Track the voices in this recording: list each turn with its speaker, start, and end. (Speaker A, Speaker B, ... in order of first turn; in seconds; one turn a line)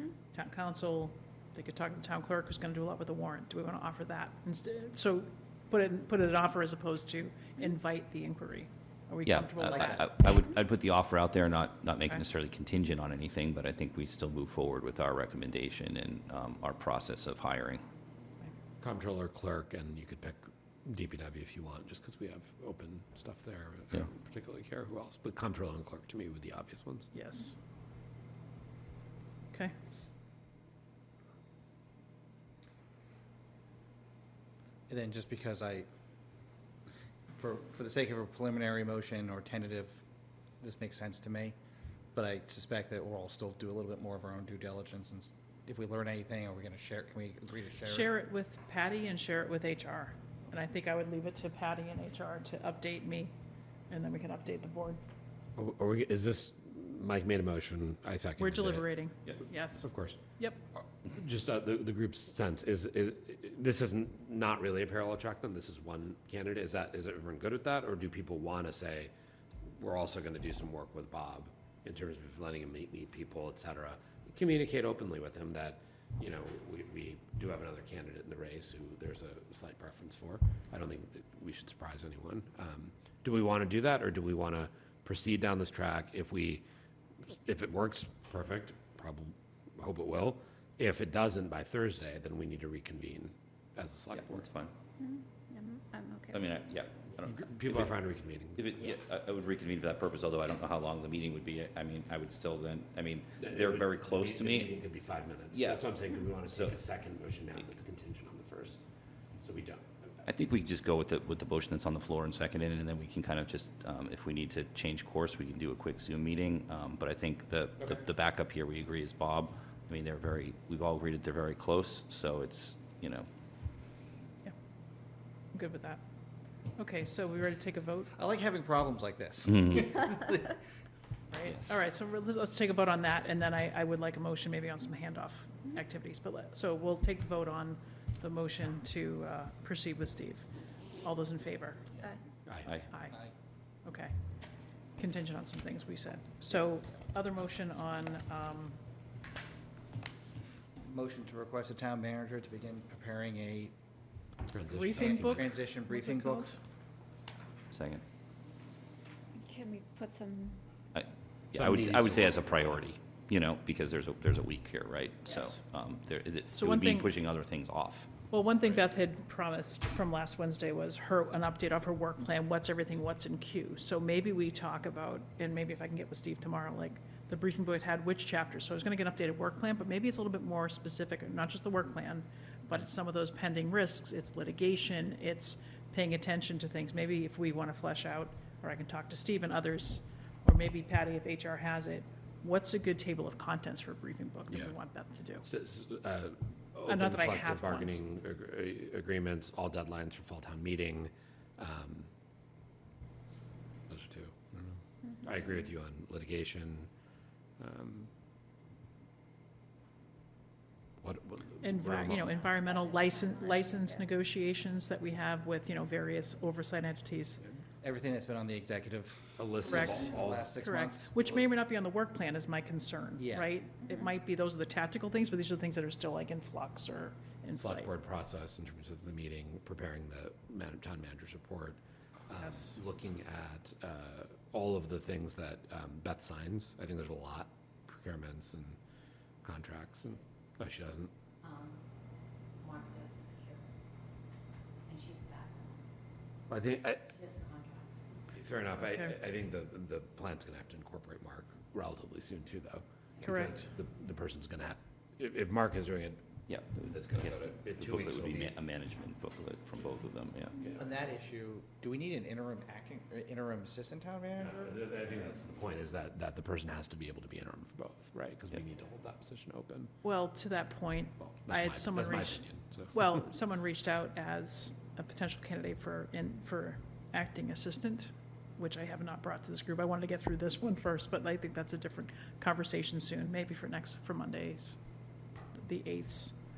Speaker A: 0.3-10.1
Speaker B: 9.2-17.8
Speaker C: 9.7-10.0
Speaker D: 18.8-27.1
Speaker A: 27.1-27.6
Speaker C: 34.9-35.9
Speaker C: 37.3-40.0
Speaker C: 40.6-41.5
Speaker C: 42.1-48.1
Speaker A: 47.8-53.3
Speaker A: 53.9-55.0
Speaker D: 55.5-58.9
Speaker A: 58.4-60.6
Speaker D: 59.8-60.2
Speaker D: 60.8-69.1
Speaker D: 69.6-86.6
Speaker D: 87.2-94.5
Speaker B: 94.1-94.7
Speaker E: 95.0-96.4
Speaker B: 96.3-97.9
Speaker D: 97.2-98.7
Speaker B: 98.5-104.7
Speaker D: 103.4-108.8
Speaker B: 105.5-105.9
Speaker B: 106.5-106.8
Speaker D: 109.4-109.8
Speaker B: 110.2-123.3
Speaker A: 125.5-126.0
Speaker A: 126.8-128.1
Speaker C: 128.1-130.6
Speaker A: 131.3-140.4
Speaker B: 131.4-131.7
Speaker A: 141.0-141.9
Speaker D: 142.4-142.7
Speaker A: 142.9-143.2
Speaker A: 143.8-144.2
Speaker A: 144.9-148.8
Speaker C: 150.8-153.7
Speaker D: 154.5-155.6
Speaker A: 154.7-156.6
Speaker C: 154.9-156.6
Speaker B: 157.7-158.0
Speaker E: 159.4-160.6
Speaker B: 160.9-168.1
Speaker D: 161.5-162.9
Speaker A: 166.5-167.1
Speaker A: 168.3-195.4
Speaker D: 195.4-202.1
Speaker A: 196.9-197.9
Speaker D: 203.9-206.9
Speaker D: 207.6-208.1
Speaker D: 211.0-212.3
Speaker A: 211.6-217.4
Speaker F: 212.6-213.9
Speaker C: 217.8-221.3
Speaker D: 219.4-220.5
Speaker A: 219.7-227.9
Speaker C: 223.2-223.5
Speaker D: 227.6-238.8
Speaker A: 232.4-232.8
Speaker D: 239.4-241.1
Speaker F: 241.4-241.8
Speaker F: 242.6-243.8
Speaker F: 244.9-245.5
Speaker D: 246.5-247.2
Speaker F: 247.2-247.9
Speaker D: 248.3-258.5
Speaker A: 253.2-253.7
Speaker B: 256.5-260.7
Speaker D: 260.6-260.9
Speaker C: 260.7-264.7
Speaker D: 264.4-269.9
Speaker A: 270.0-284.8
Speaker D: 271.2-273.2
Speaker A: 285.5-286.4